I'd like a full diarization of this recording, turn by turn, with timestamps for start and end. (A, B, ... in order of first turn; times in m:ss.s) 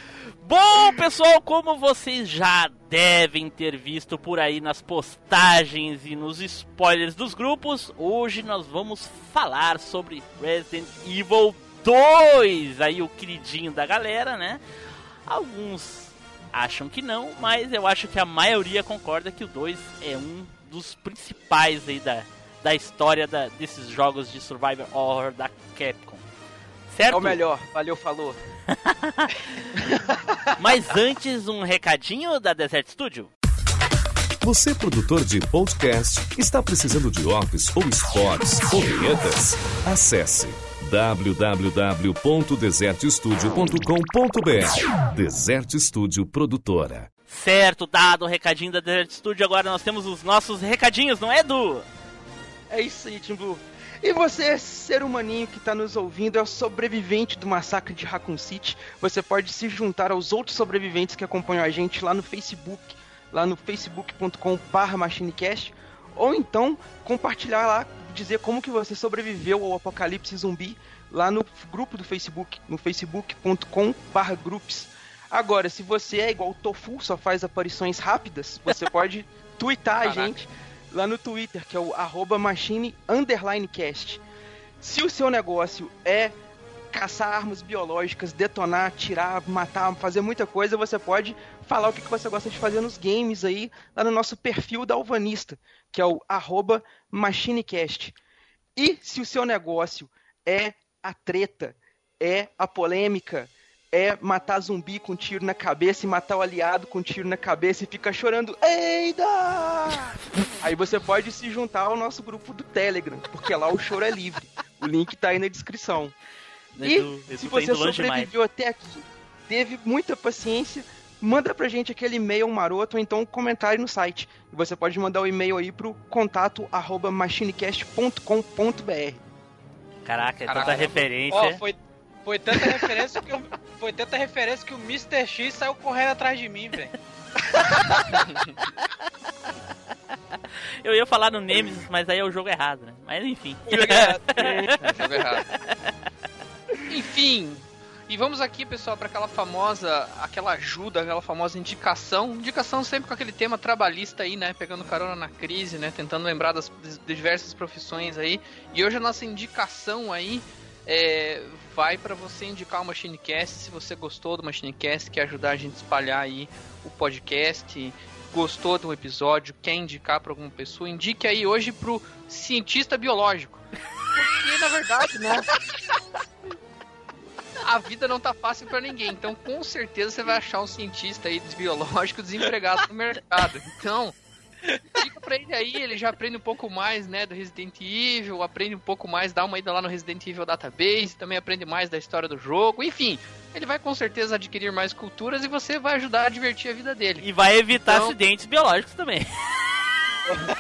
0:00.4-0:14.6 A
0:15.3-0:26.3 A
0:26.9-0:27.4 A
0:27.1-0:28.4 B
0:28.9-0:29.4 A
0:30.6-0:33.3 A
0:34.4-0:47.1 C
0:47.3-0:51.9 A
0:52.7-1:24.2 B
1:20.0-1:20.3 D
1:24.8-1:26.4 B
1:26.9-1:38.2 B
1:38.8-1:56.1 B
1:56.8-1:58.3 A
1:56.8-2:09.2 B
2:10.0-2:11.6 A
2:10.5-2:11.0 D
2:11.3-2:16.9 E
2:18.1-2:18.5 D
2:20.8-2:24.9 A
2:23.7-2:24.9 B
2:24.4-2:25.5 D
2:26.9-2:53.6 D
2:54.2-2:55.6 D
2:57.6-3:04.2 D
3:05.0-3:17.3 D
3:17.2-3:19.3 A
3:17.8-3:18.2 D